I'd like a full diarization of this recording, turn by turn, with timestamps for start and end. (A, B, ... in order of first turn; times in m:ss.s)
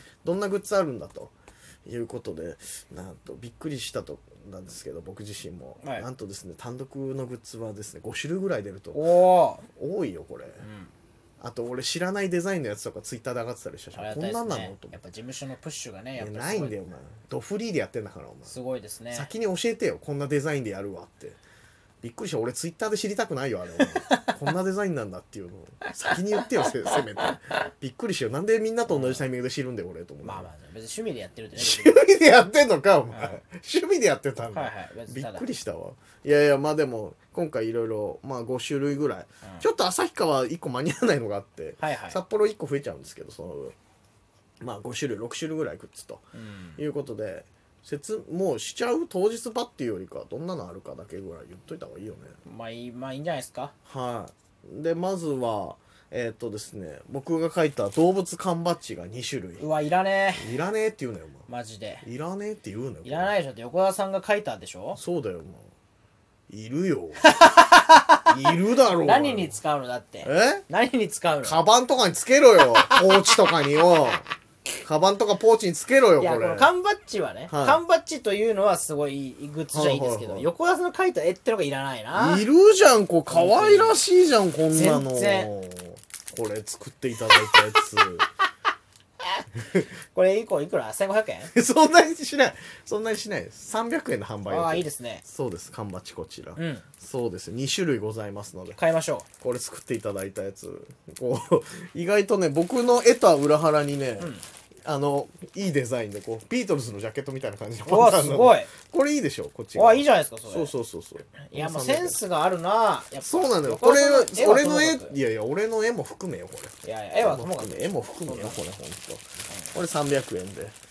0:00.2-0:01.3 A
0:01.9-0:09.0 A
0:05.8-0:06.1 B
0:08.9-0:09.7 B
0:09.7-0:10.6 A
0:10.6-0:10.9 B
0:11.4-0:15.0 A
0:14.0-0:16.8 B
0:16.2-0:18.6 A
0:18.5-0:19.3 B
0:19.1-0:21.4 A
0:22.0-0:30.5 A
0:24.0-0:24.3 B
0:28.9-0:29.3 B
0:30.2-0:32.0 B
0:31.6-0:43.8 A
0:33.1-0:33.4 B
0:34.5-0:35.5 B
0:41.8-0:42.2 B
0:44.6-0:46.2 A
0:46.3-0:46.8 B
0:46.8-0:52.4 A
0:52.4-0:53.7 B
0:53.8-0:59.6 A
0:59.6-1:00.6 B
1:00.4-1:01.4 A
1:01.5-1:02.0 B
1:02.0-1:03.3 A
1:03.0-1:05.0 B
1:05.0-1:05.7 A
1:06.5-1:07.3 A
1:07.2-1:11.6 B
1:08.3-1:09.6 A
1:10.2-1:10.6 A
1:11.4-1:14.2 A
1:12.6-1:14.1 B
1:14.8-1:16.7 A
1:16.2-1:22.5 B
1:17.5-1:17.8 A
1:19.7-1:20.5 A
1:22.1-1:28.3 A
1:23.3-1:24.0 B
1:24.7-1:25.5 B
1:30.1-1:31.5 B
1:31.5-1:38.8 A
1:34.5-1:35.2 B
1:36.6-1:36.9 B
1:38.8-1:39.3 B
1:39.4-1:44.3 A
1:44.2-1:44.5 B
1:44.8-1:52.2 A
1:47.9-1:48.7 B
1:49.8-1:50.7 B
1:51.4-1:55.2 B
1:53.2-2:00.8 A
1:56.8-1:58.6 B